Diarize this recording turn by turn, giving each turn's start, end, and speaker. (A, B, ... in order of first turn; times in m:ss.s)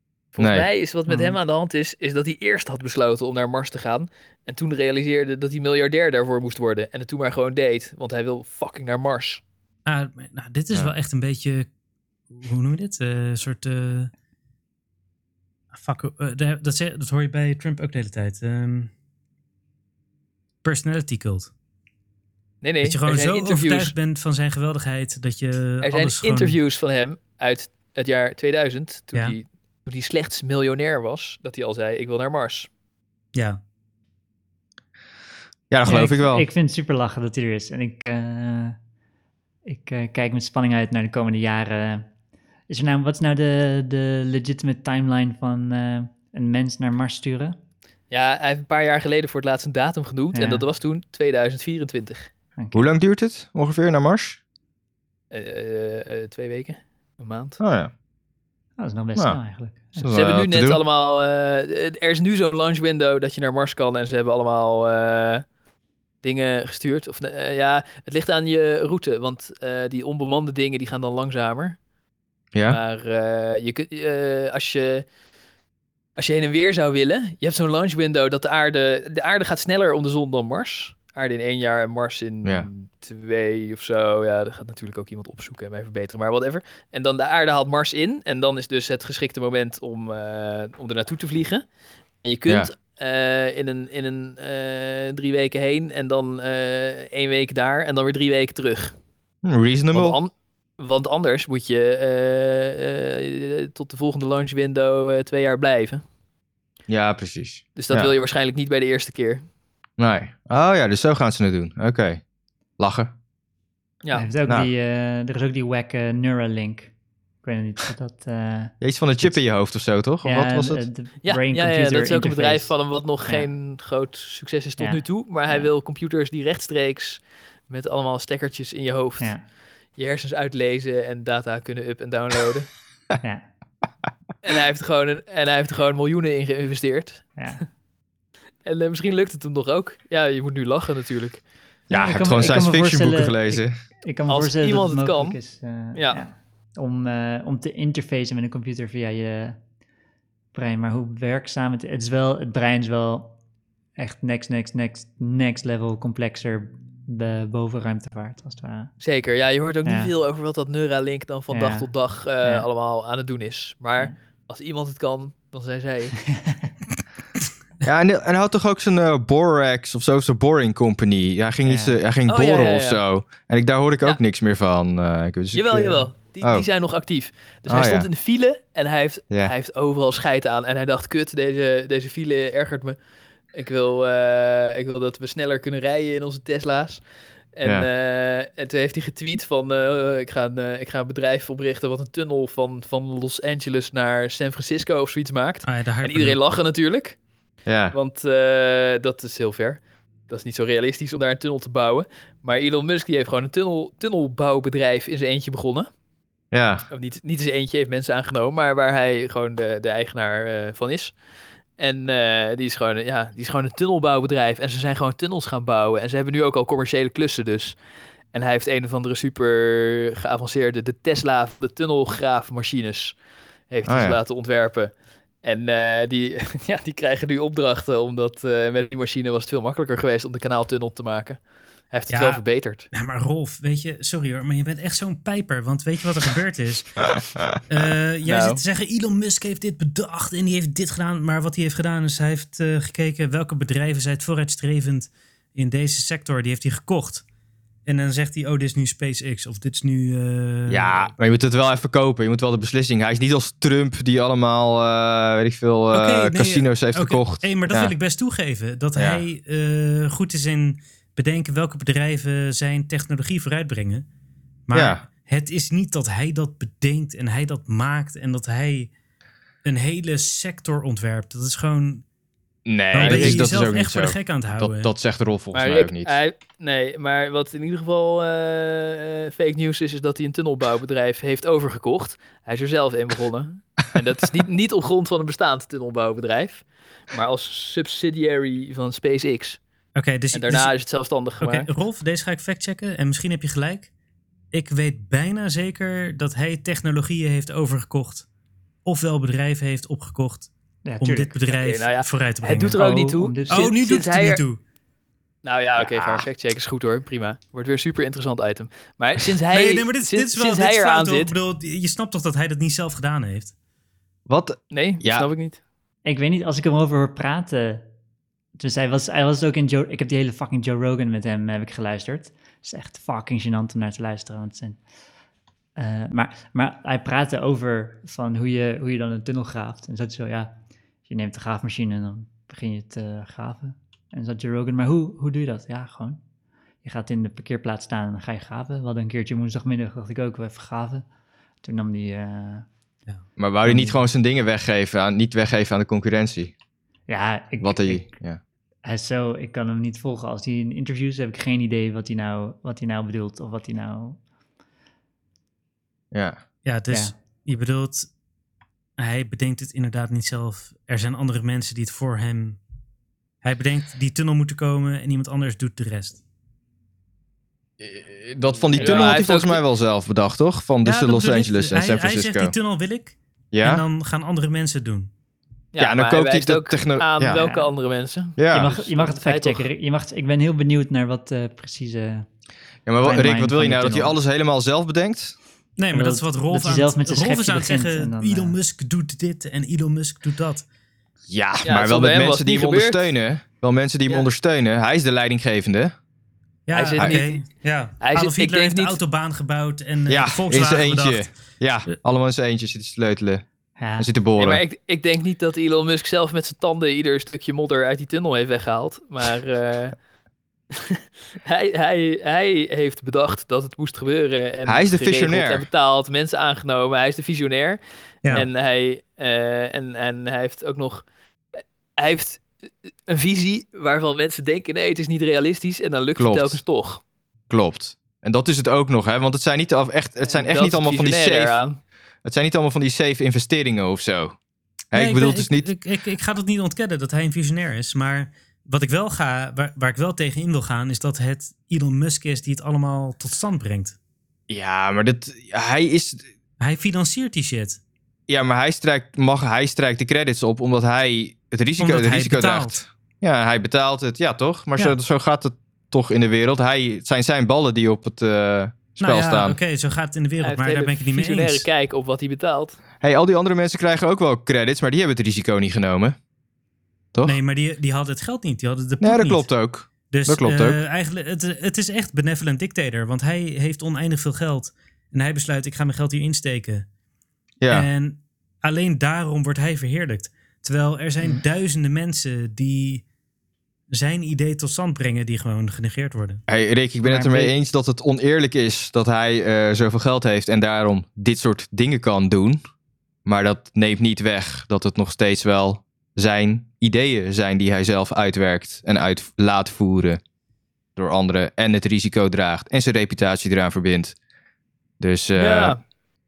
0:00.3-0:09.4 A
0:00.4-0:00.7 B
0:01.1-0:01.4 C
0:09.8-0:11.7 D
0:12.3-0:14.1 D
0:15.7-0:18.9 D
0:20.6-0:21.5 D
0:22.6-0:23.9 A
0:22.8-0:26.6 D
0:25.8-0:32.7 A
0:33.3-0:33.6 D
0:35.7-0:36.4 B
0:35.8-0:38.8 C
0:39.7-0:42.0 C
0:42.7-0:47.6 C
0:48.1-0:52.3 A
0:50.3-0:50.6 C
0:52.6-0:52.8 C
0:52.7-0:54.4 B
0:55.3-0:57.6 A
0:57.6-0:57.9 B
0:58.8-1:00.1 C
1:00.0-1:00.8 B
1:00.1-1:05.4 A
1:06.2-1:11.8 A
1:12.5-1:12.8 B
1:12.7-1:15.0 A
1:16.2-1:31.6 A
1:32.2-1:38.9 A
1:39.4-1:40.2 B
1:39.9-1:46.0 A
1:46.9-1:48.1 B
1:47.8-1:49.4 A
1:50.0-1:52.2 B
1:52.8-1:53.1 B
1:54.0-1:54.3 A
1:54.1-1:56.9 C
1:57.4-1:59.4 C
1:58.8-2:00.8 B
2:00.2-2:03.4 C
2:01.2-2:09.3 A
2:04.8-2:05.7 C
2:10.0-2:12.7 A
2:14.4-2:17.4 A
2:18.6-2:21.4 A
2:21.9-2:23.7 B
2:21.9-2:29.6 C
2:24.3-2:25.4 A
2:25.9-2:26.2 A
2:30.5-2:33.3 C
2:34.0-2:38.9 C
2:39.0-2:46.2 A
2:39.8-2:40.1 C
2:41.5-2:41.9 C
2:46.2-2:46.7 C
2:47.8-2:56.7 B
2:51.6-2:52.0 C
2:52.3-2:53.0 A
2:55.5-3:03.0 A
2:57.7-2:58.1 B
3:03.5-3:07.0 A
3:07.5-3:17.2 A
3:15.6-3:16.4 D
3:17.7-3:18.0 B
3:17.9-3:25.9 A
3:26.5-3:26.8 B
3:26.9-3:31.1 A
3:31.8-3:37.8 A
3:38.3-3:43.1 A
3:43.7-3:44.9 A
3:43.8-3:44.2 B
3:45.4-3:51.4 A
3:51.9-3:52.9 A
3:52.1-3:57.1 D
3:57.7-4:07.2 D
3:58.2-3:58.6 A
4:07.8-4:11.0 D
4:10.7-4:17.9 B
4:15.9-4:24.0 D
4:19.0-4:19.2 B
4:24.7-4:28.9 D
4:24.7-4:25.0 B
4:29.6-4:32.0 D
4:32.6-4:36.2 B
4:32.9-4:34.9 D
4:32.9-4:33.5 A
4:35.5-4:49.6 A
4:49.9-4:50.7 D
4:50.3-4:51.7 A
4:51.4-4:53.9 D
4:54.5-4:58.2 D
4:58.8-5:00.5 D
5:00.8-5:01.4 C
5:01.0-5:04.6 D
5:01.5-5:04.4 A
5:02.6-5:03.7 C
5:05.4-5:11.3 A
5:05.8-5:06.2 B
5:09.5-5:13.5 D
5:14.3-5:15.3 B
5:14.7-5:15.6 A
5:16.0-5:17.8 C
5:18.6-5:24.8 C
5:25.8-5:30.5 C
5:31.1-5:36.2 C
5:36.8-5:41.0 C
5:41.6-5:42.7 C
5:43.4-5:46.5 B
5:43.6-5:44.0 C
5:47.1-5:48.1 C
5:47.6-5:48.4 B
5:48.8-5:54.2 C
5:56.1-5:56.4 B
5:56.6-5:58.1 D
5:59.0-6:02.6 D
6:03.4-6:06.2 D
6:07.8-6:12.5 B
6:08.8-6:09.6 A
6:10.8-6:15.1 D
6:13.5-6:13.8 B
6:15.7-6:19.6 A
6:15.8-6:17.4 B
6:17.2-6:17.7 C
6:18.4-6:18.7 B
6:18.5-6:22.3 C
6:22.8-6:25.4 B
6:23.0-6:24.2 C
6:25.8-6:30.6 D
6:25.9-6:28.6 C
6:31.3-6:35.9 B
6:31.6-6:33.1 A
6:36.7-6:41.3 D
6:36.7-6:37.4 A
6:38.0-6:39.0 A
6:40.1-6:43.4 B
6:43.8-6:44.1 C
6:44.0-6:44.6 B
6:44.4-6:50.0 A
6:50.7-7:01.0 A
6:54.6-6:55.7 B
7:02.0-7:02.5 A
7:03.1-7:07.0 A
7:06.2-7:06.6 B
7:07.5-7:11.6 B
7:10.3-7:11.8 A
7:12.2-7:14.4 B
7:14.9-7:15.7 B
7:14.9-7:24.0 D
7:24.5-7:26.2 B
7:26.6-7:27.8 D
7:28.3-7:39.6 B
7:31.8-7:32.8 D
7:39.0-7:41.6 D
7:40.4-7:42.8 A
7:43.0-7:46.2 B
7:47.2-7:49.5 D
7:49.0-7:50.8 B
7:50.1-7:56.8 D
7:57.6-7:57.9 B
7:57.7-8:03.0 D
8:03.9-8:06.4 D
8:06.5-8:12.6 B
8:07.0-8:07.5 C
8:13.2-8:20.2 B
8:21.0-8:24.1 B
8:25.0-8:25.8 B
8:25.4-8:25.8 A